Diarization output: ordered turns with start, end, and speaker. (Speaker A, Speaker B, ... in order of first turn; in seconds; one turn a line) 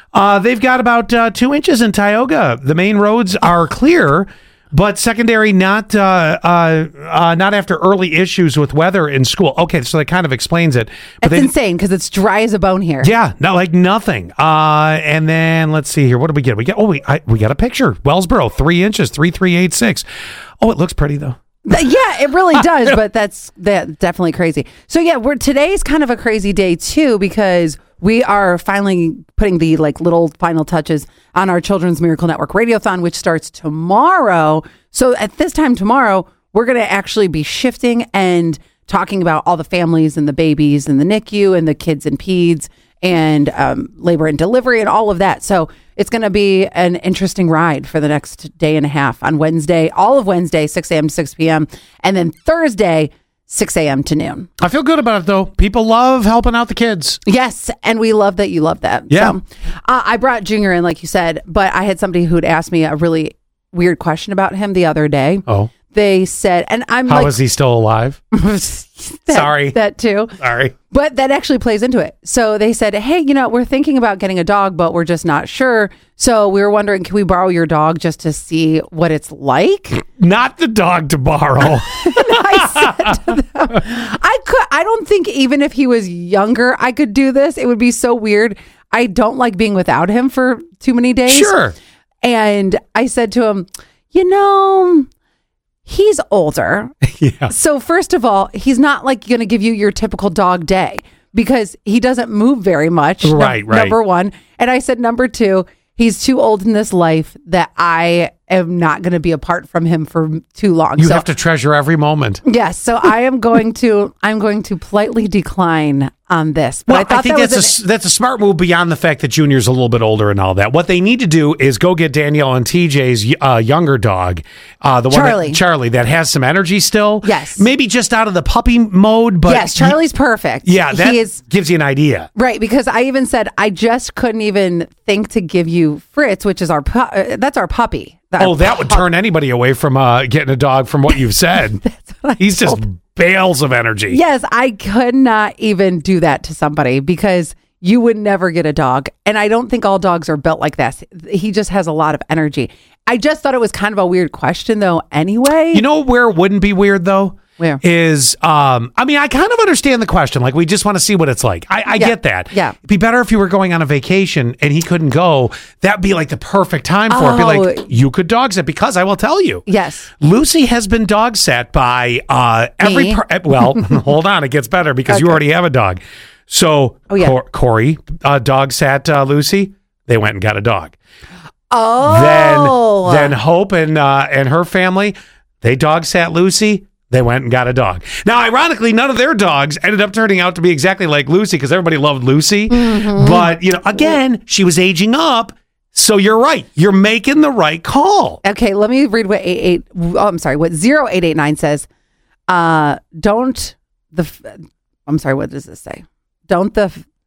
Speaker A: 0.1-11.5
Speaker B: 11.2-13.1
Speaker A: 13.0-20.1
Speaker A: 20.6-21.4
Speaker B: 21.7-54.5
Speaker A: 54.6-57.2
Speaker B: 57.2-67.4
Speaker A: 59.1-59.4
Speaker A: 67.1-68.2
Speaker B: 68.3-70.4
Speaker A: 69.3-69.8
Speaker A: 70.4-70.7
Speaker B: 70.9-80.0
Speaker A: 80.0-83.0
Speaker B: 81.8-91.5
Speaker A: 91.3-91.8
Speaker B: 92.2-95.1
Speaker B: 95.9-96.9
Speaker A: 97.2-97.5
Speaker B: 97.5-111.3
Speaker A: 103.2-104.0
Speaker A: 111.0-112.4
Speaker B: 112.4-117.7
Speaker A: 116.9-130.0
Speaker B: 125.1-125.6
Speaker B: 127.2-127.7
Speaker B: 129.5-131.4
Speaker A: 130.6-132.3
Speaker B: 132.3-139.1
Speaker A: 138.4-141.8
Speaker B: 141.8-142.8
Speaker A: 142.4-144.2
Speaker B: 144.1-155.8
Speaker A: 155.7-181.0
Speaker B: 161.9-162.8
Speaker B: 167.1-167.9
Speaker B: 169.7-170.1
Speaker B: 172.8-174.0
Speaker B: 175.1-175.4
Speaker B: 181.7-183.4
Speaker A: 182.0-198.4
Speaker B: 192.7-193.5
Speaker B: 198.4-201.9
Speaker B: 202.5-207.0